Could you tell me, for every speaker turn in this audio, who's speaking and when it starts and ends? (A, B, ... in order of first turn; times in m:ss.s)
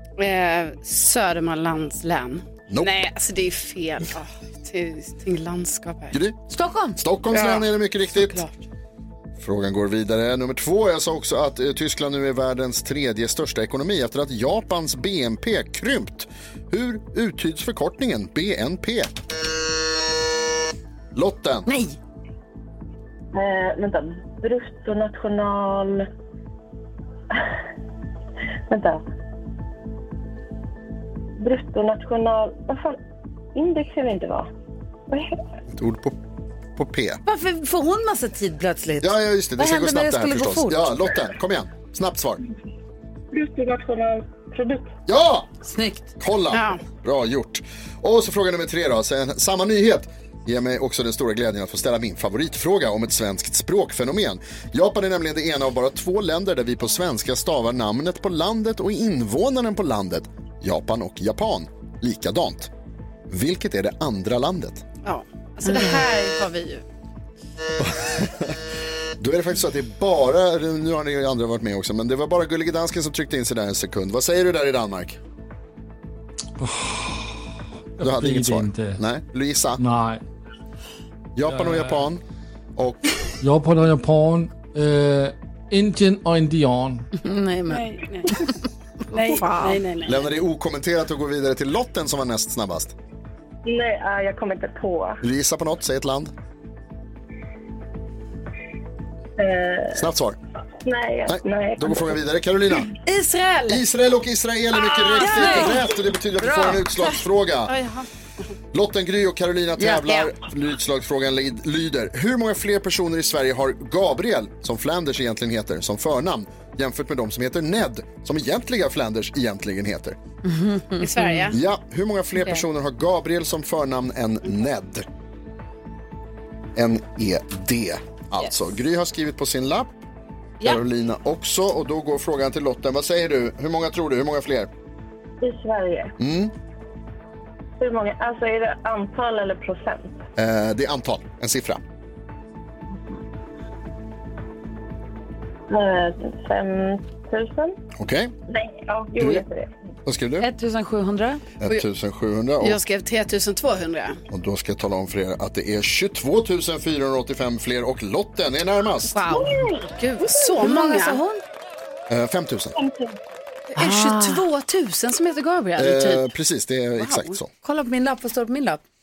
0:00.2-0:06.2 A
0:02.7-0:03.0 B
0:06.1-0:06.4 B
0:06.5-0:07.0 C
0:07.0-0:08.4 B
0:07.3-0:08.5 A
0:09.4-0:19.1 B
0:21.1-0:21.7 B
0:21.6-0:22.0 C
0:23.3-0:26.1 D
0:28.7-0:29.0 D
0:31.4-0:33.0 D
0:33.5-0:34.5 D
0:35.1-0:35.4 D
0:35.7-0:36.2 B
0:36.8-0:37.2 B
0:37.2-0:40.9 C
0:39.0-0:42.4 B
0:43.3-0:44.9 D
0:45.1-0:45.6 B
0:45.6-0:46.1 C
0:46.2-1:02.7 B
0:46.5-0:46.8 A
1:03.3-1:04.8 B
1:05.0-1:06.8 A
1:05.6-1:06.0 C
1:07.8-1:08.6 B
1:09.2-1:15.2 B
1:16.6-1:17.3 E
1:18.0-1:19.0 E
1:18.0-1:19.8 B
1:19.8-1:20.2 E
1:21.4-1:22.2 B
1:21.5-1:22.1 E
1:22.8-1:23.3 B
1:23.4-1:27.1 E
1:27.2-1:28.6 C
1:27.7-1:28.4 A
1:29.1-1:30.3 A
1:29.2-1:29.8 C
1:30.0-1:32.9 B
1:33.6-1:35.2 D
1:35.2-1:36.3 B
1:39.4-1:40.0 D
1:40.0-1:40.4 B
1:40.8-1:42.1 D
1:41.3-1:42.9 B
1:43.0-1:43.8 A
1:43.7-1:47.8 B
1:44.8-1:45.8 A
1:45.2-1:45.8 C
1:46.4-1:47.1 C
1:47.7-1:48.4 A
1:48.7-2:00.2 B
1:49.8-1:50.3 C
2:00.4-2:01.5 C
2:01.0-2:01.6 A
2:01.5-2:05.0 B
2:06.8-2:09.9 B
2:10.6-2:14.7 B
2:15.4-2:16.1 D
2:16.2-2:16.5 B
2:17.8-2:20.2 D
2:20.4-2:21.8 B
2:25.7-2:27.8 D
2:28.0-2:28.3 B
2:28.5-2:29.7 D
2:30.0-2:30.5 B
2:30.4-2:31.4 C
2:31.6-2:32.8 B
2:32.6-2:34.2 A
2:34.3-2:39.2 B
2:39.1-2:41.2 A
2:39.3-2:40.3 D
2:40.5-2:41.4 C
2:42.1-2:42.7 B
2:42.8-2:43.2 D
2:43.7-2:46.3 A
2:43.7-2:44.5 C
2:45.8-2:47.5 B
2:47.0-2:47.4 A
2:47.6-2:48.8 C